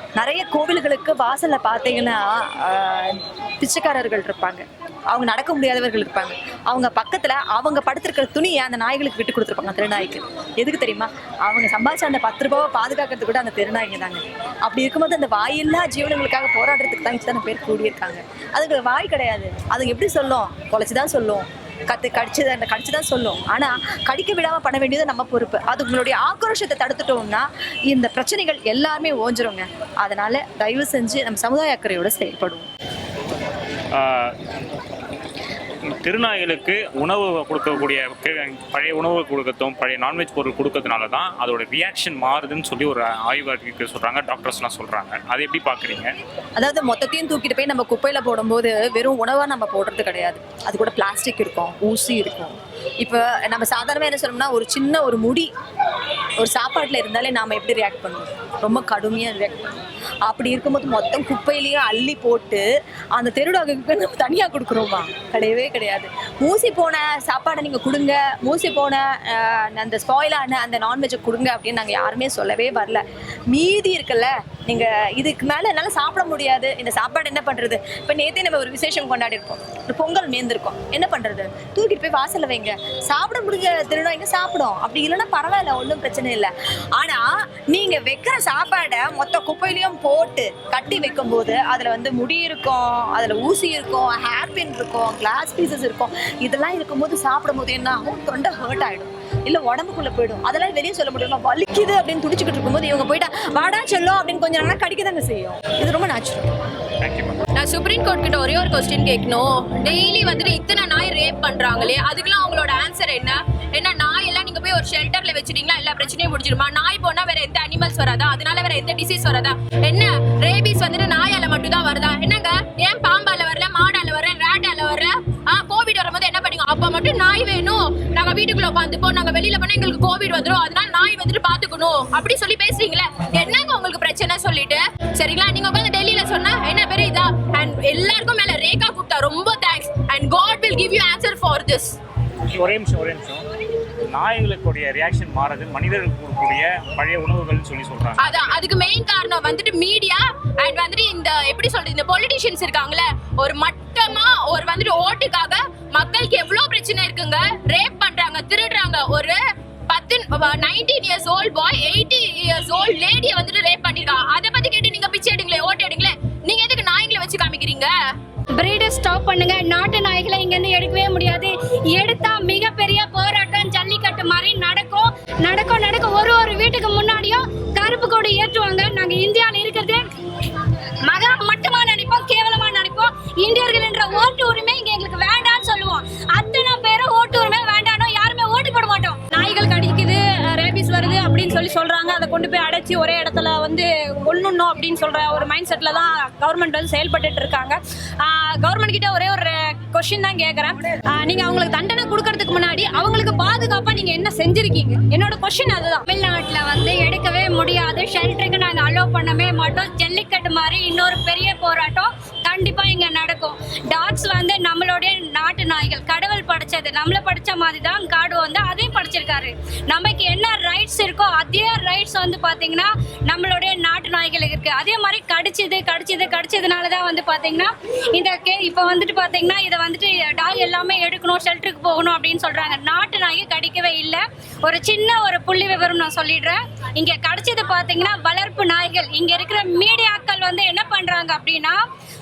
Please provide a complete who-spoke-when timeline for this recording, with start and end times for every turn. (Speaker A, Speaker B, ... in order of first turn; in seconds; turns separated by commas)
Speaker A: 0.2-32.7, Speaker B: 34.0-34.3, Speaker B: 35.9-46.1, Speaker A: 46.6-55.5, Speaker A: 56.4-59.7, Speaker A: 60.2-106.5, Speaker B: 107.0-107.4, Speaker C: 107.6-141.9, Speaker B: 142.5-143.4, Speaker B: 144.1-148.4, Speaker C: 148.2-159.4, Speaker C: 159.9-167.9, Speaker D: 168.6-180.0, Speaker D: 181.1-189.3, Speaker E: 189.3-206.0, Speaker D: 206.1-241.8